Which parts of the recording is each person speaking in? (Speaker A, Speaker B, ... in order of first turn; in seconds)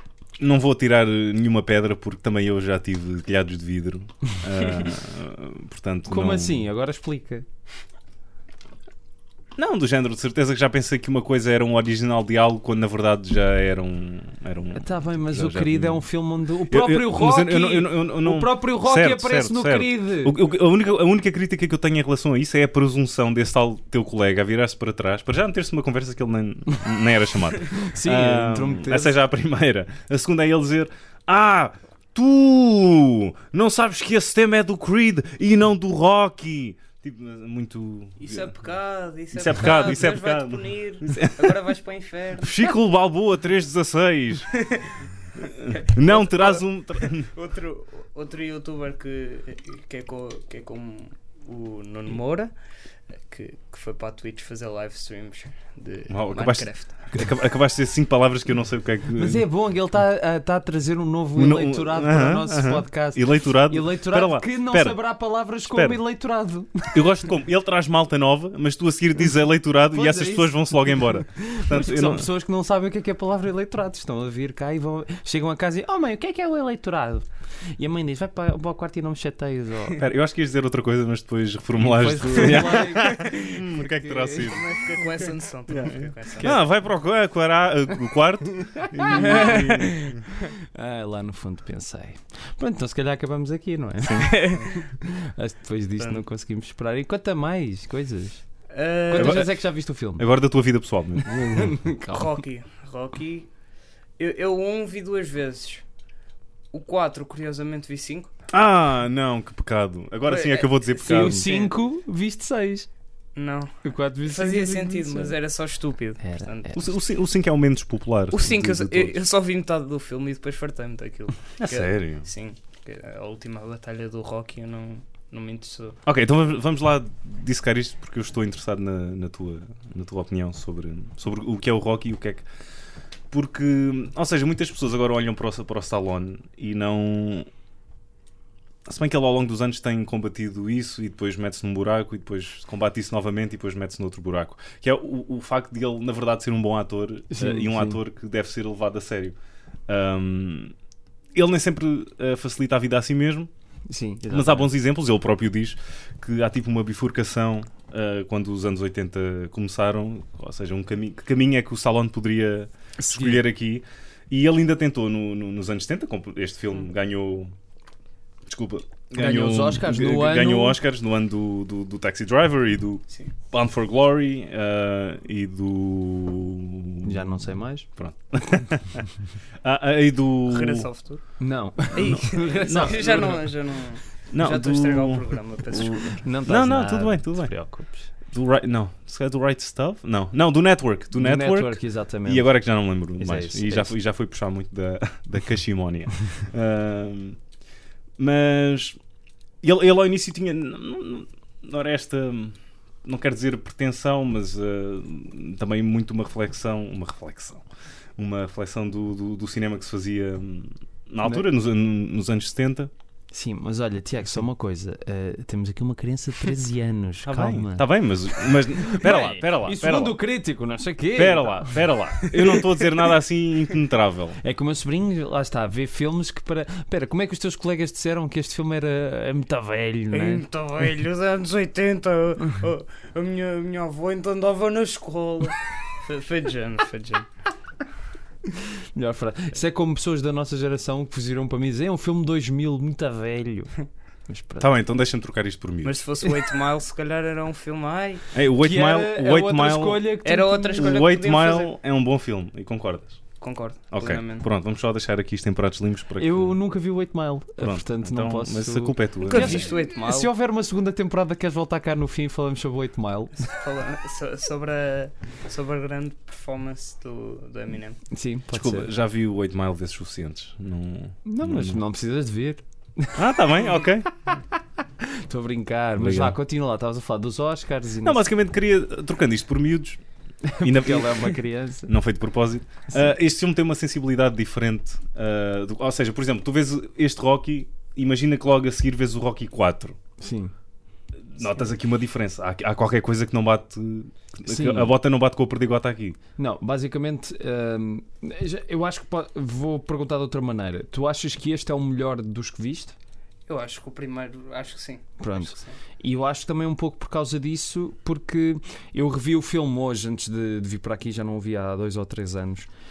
Speaker A: 0.4-6.7, 9.6-16.1, 16.7-38.6, 39.3-41.6, 42.4-44.6, 45.5-47.3, 56.1-59.4, 61.4-65.0, 65.7-66.0, 66.9-72.3, 80.0-85.0, 85.7-90.2, 99.2-101.8, 108.5-111.5, 116.7-119.2, 121.6-122.3, 126.1-132.5, 133.3-137.5, 138.9-149.4, 149.9-150.7, 151.3-153.5, 154.3-167.5, 168.5-177.4, 178.0-179.1, 179.6-180.9, 181.9-183.4, 184.3-187.5, 188.2-197.4, 198.2-199.0, 199.6-207.7, 208.2-212.9, 217.2-220.2, 221.2-224.4, 244.6-246.0, 248.3-250.1, 250.8-253.2, 253.9-256.6, 257.6-259.7, 268.5-271.8, 273.1-274.1, 276.0-276.4, 278.0-280.0, 280.6-290.0, 291.3-296.2
Speaker B: 6.1-7.5, 14.8-20.4, 27.7-29.1, 59.2-67.0, 69.9-80.0, 81.8-84.5, 88.8-89.7, 90.7-98.4, 99.1-100.3, 101.3-102.4, 111.0-112.9, 113.8-115.3, 116.2-116.8, 147.3-148.0, 153.9-154.7, 163.0-163.4, 169.2-170.8, 177.0-177.9, 181.4-183.4, 186.2-188.1, 191.2-192.5, 193.2-193.9, 213.3-217.9, 218.4-222.7, 224.4-230.5, 238.5-243.8, 244.3-244.7, 248.6-251.1, 256.2-263.5, 268.1-268.9, 271.2-273.2, 275.0-278.2, 280.4-281.9, 290.2-290.5, 294.5-294.9, 296.4-302.9, 305.2-312.7
Speaker C: 38.2-42.7, 44.5-52.5, 53.3-57.1, 83.1-83.3, 84.3-86.5, 89.2-90.2, 94.1-94.8, 98.7-99.5, 102.1-103.5, 104.2-105.8, 106.7-108.3, 110.3-111.7, 113.4-116.8, 118.3-126.0, 180.5-181.4, 181.9-186.2, 230.1-237.3, 245.8-248.2, 250.2-251.7, 253.4-254.4, 259.2-260.3, 263.4-268.0, 303.5-305.8